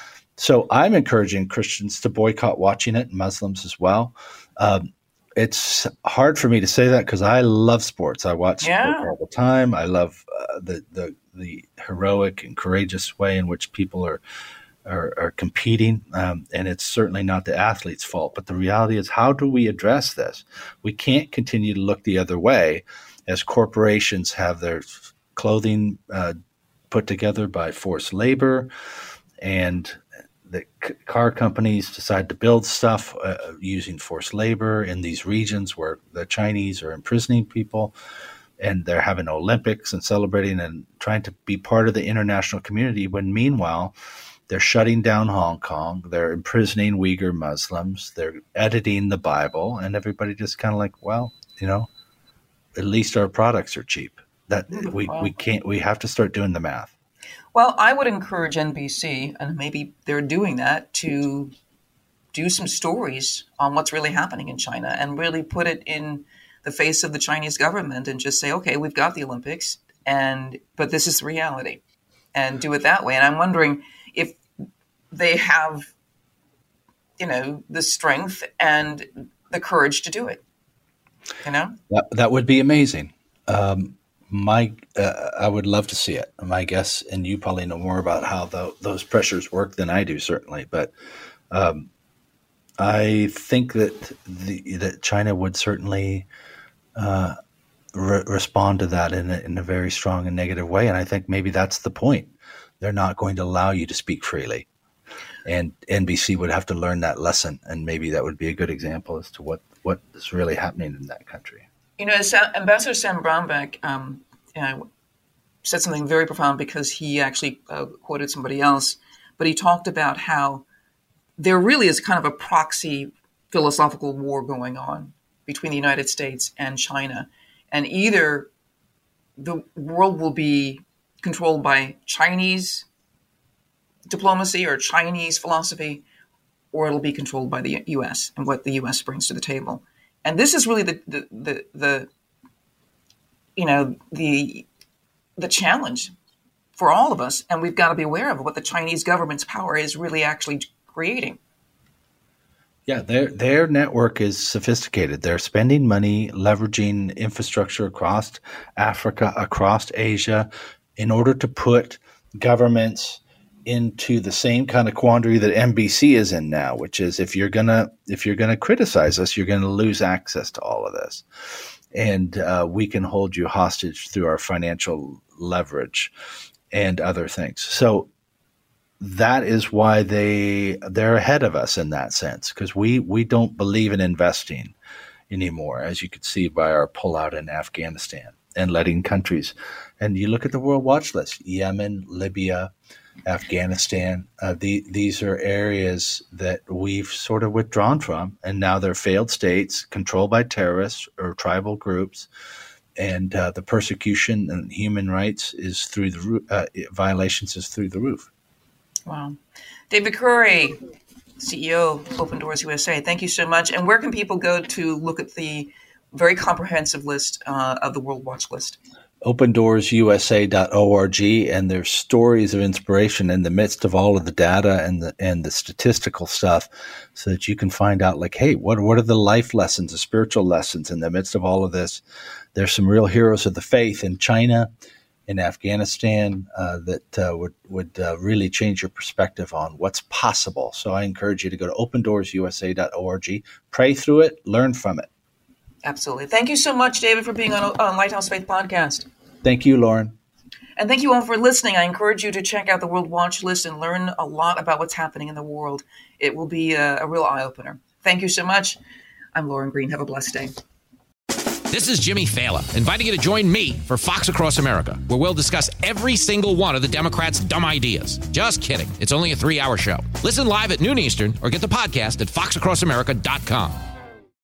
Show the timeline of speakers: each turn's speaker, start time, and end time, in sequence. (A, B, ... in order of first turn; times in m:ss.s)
0:00.4-0:14.2 A
0:08.6-0:09.1 B
0:14.8-0:26.3 A
0:26.9-0:28.7 A
0:29.4-0:37.9 A
0:38.6-0:43.9 A
0:44.5-0:51.9 A
0:52.7-0:56.9 A
0:54.7-0:55.3 B
0:57.5-1:01.5 B
1:02.3-1:11.8 B
1:12.3-1:14.4 B
1:15.1-1:15.9 B
1:17.2-1:20.4 B
1:21.4-1:21.8 B
1:21.9-1:30.9 A
1:31.5-1:31.9 A
1:32.8-1:36.3 A
1:36.9-1:37.4 A
1:37.9-1:44.7 A
1:45.4-1:51.6 A
1:52.0-1:54.8 B
1:55.6-2:00.6 B
2:01.4-2:08.5 B
2:09.4-2:12.8 B
2:14.1-2:16.0 B
2:16.7-2:22.1 B
2:23.6-2:24.6 B
2:25.4-2:26.1 B
2:26.8-2:31.4 B
2:32.9-2:51.2 A
2:51.9-2:56.1 A
2:56.7-2:58.1 A
2:59.0-3:04.7 A
3:05.3-3:12.7 A
3:13.2-3:22.3 A
3:23.0-3:28.3 A
3:29.1-3:29.4 B
3:29.9-3:30.8 B
3:31.4-3:38.8 B
3:39.2-3:52.0 A
3:52.5-3:54.7 A
3:55.3-4:05.1 A
4:05.8-4:09.1 B
4:09.4-4:10.1 A
4:10.8-4:18.8 B
4:19.3-4:20.5 B
4:21.7-4:33.8 C